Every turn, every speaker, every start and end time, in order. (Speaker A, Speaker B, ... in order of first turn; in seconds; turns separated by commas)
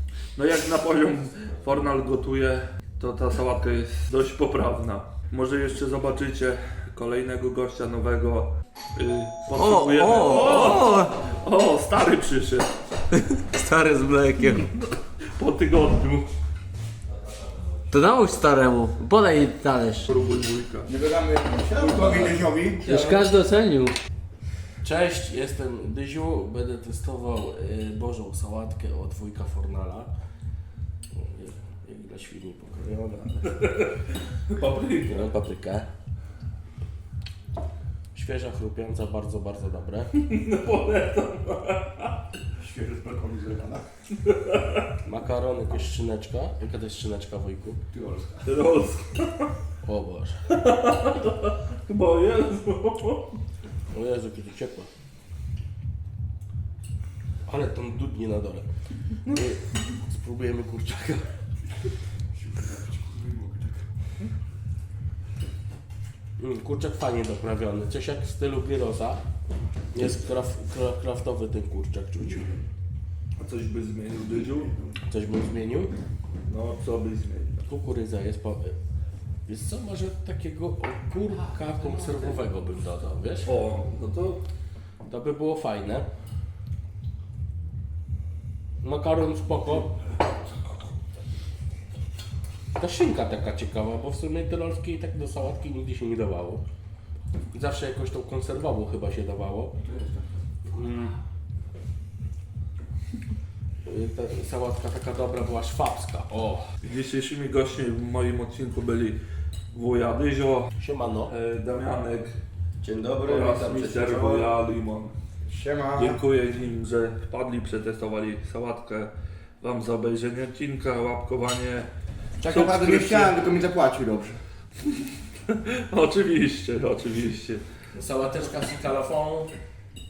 Speaker A: 0.4-12.8, Speaker B: 9.6-11.1, Speaker B: 13.1-14.7, Speaker A: 15.3-16.3, Speaker C: 17.1-17.9, Speaker B: 17.9-20.1, Speaker A: 20.1-20.9, Speaker D: 20.9-23.3, Speaker E: 21.8-22.4, Speaker C: 21.8-22.3, Speaker B: 22.8-23.9, Speaker E: 24.8-30.1, Speaker E: 31.1-33.6, Speaker A: 33.4-35.3, Speaker E: 35.0-35.9, Speaker E: 38.1-40.1, Speaker A: 40.1-42.2, Speaker D: 42.6-43.8, Speaker A: 44.1-45.0, Speaker E: 45.0-47.8, Speaker D: 47.9-48.4, Speaker A: 48.4-49.5, Speaker E: 49.8-50.4, Speaker A: 50.5-53.4, Speaker E: 53.9-54.9, Speaker E: 57.5-58.7, Speaker E: 59.2-61.3, Speaker E: 66.4-69.2, Speaker E: 69.9-72.6, Speaker A: 73.4-74.8, Speaker E: 75.1-75.9, Speaker A: 76.5-77.7, Speaker E: 77.7-78.8, Speaker E: 79.5-83.5, Speaker A: 83.4-84.4, Speaker E: 85.0-86.1, Speaker E: 88.8-90.0, Speaker E: 92.8-96.6, Speaker E: 97.5-99.8, Speaker E: 100.7-101.2, Speaker E: 103.8-106.7, Speaker A: 106.8-109.2, Speaker A: 109.7-110.7, Speaker E: 110.8-111.3, Speaker A: 111.2-112.3, Speaker C: 112.8-114.6, Speaker A: 113.2-115.1, Speaker D: 115.5-116.2, Speaker A: 115.9-121.9, Speaker D: 122.4-124.4, Speaker A: 122.5-123.3, Speaker E: 122.5-123.3, Speaker A: 125.5-127.6, Speaker E: 127.9-129.5